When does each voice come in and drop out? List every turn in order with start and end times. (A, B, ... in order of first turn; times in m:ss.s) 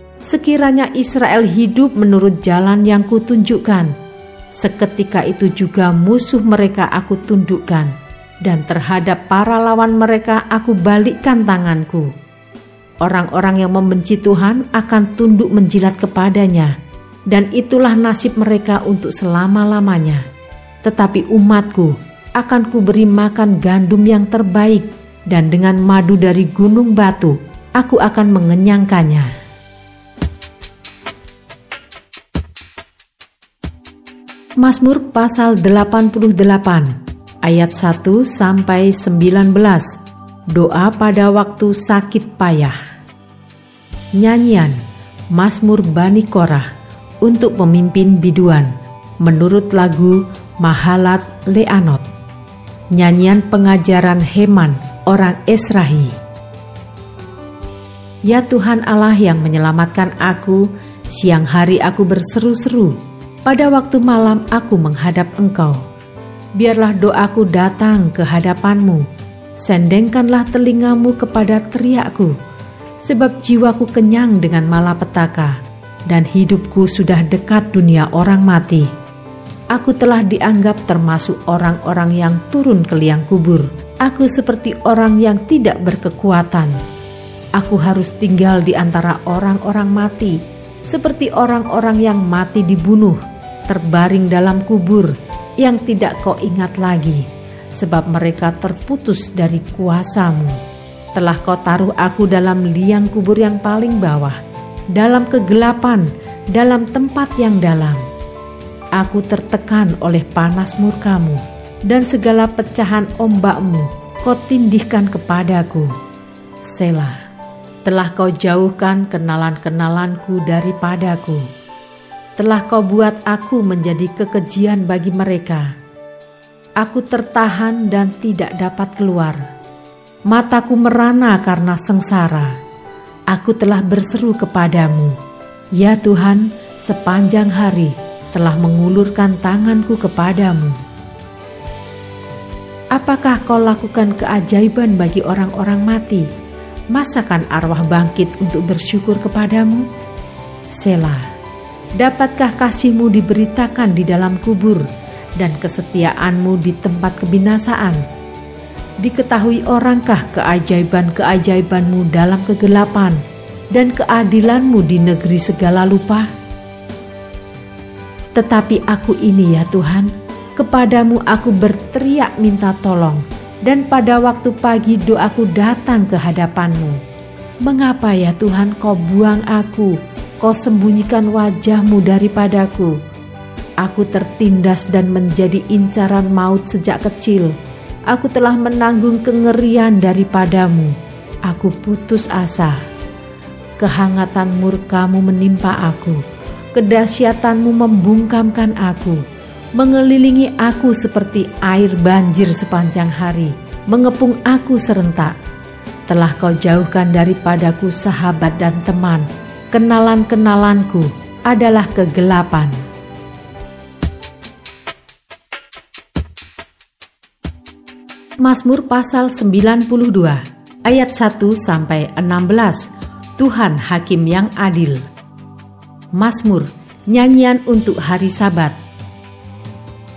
0:00.3-0:03.9 A
0:04.6-0:07.9 A
0:08.4-0:12.1 A
0:13.0-0:16.7 A
0:17.3-0:20.2 A
0:20.8-0:29.3 A
0:34.6-0:36.9 A
0:37.4-0:39.9 A
0:40.5-0:42.8 A
0:44.2-0:44.8 A
0:45.3-0:46.7 A
0:47.2-0:48.7 A
0:49.2-0:52.0 A
0:52.9-0:56.2 A
0:58.3-1:05.8 A
1:06.6-1:09.0 A
1:09.6-1:12.4 A
1:13.0-1:15.6 A
1:16.1-1:18.9 A
1:19.7-1:26.8 A
1:27.6-1:37.2 A
1:37.8-1:40.6 A
1:41.1-1:44.4 A
1:45.0-1:48.0 A
1:49.0-1:55.9 A
1:56.6-1:57.2 A
1:57.8-2:01.4 A
2:02.4-2:05.7 A
2:06.8-2:09.4 A
2:10.3-2:12.5 A
2:13.3-2:15.2 A
2:15.8-2:20.8 A
2:23.0-2:26.3 A
2:26.9-2:29.9 A
2:30.7-2:31.2 A
2:32.0-2:34.9 A
2:35.4-2:38.0 A
2:39.0-2:43.2 A
2:43.7-2:46.3 A
2:48.4-2:57.0 A
2:57.6-3:02.9 A
3:03.8-3:07.5 A
3:08.1-3:10.9 A
3:11.5-3:12.8 A
3:13.8-3:16.2 A
3:16.8-3:19.2 A
3:19.8-3:25.3 A
3:26.1-3:32.8 A
3:38.4-3:42.8 A
3:43.4-3:45.0 A
3:46.2-3:48.8 A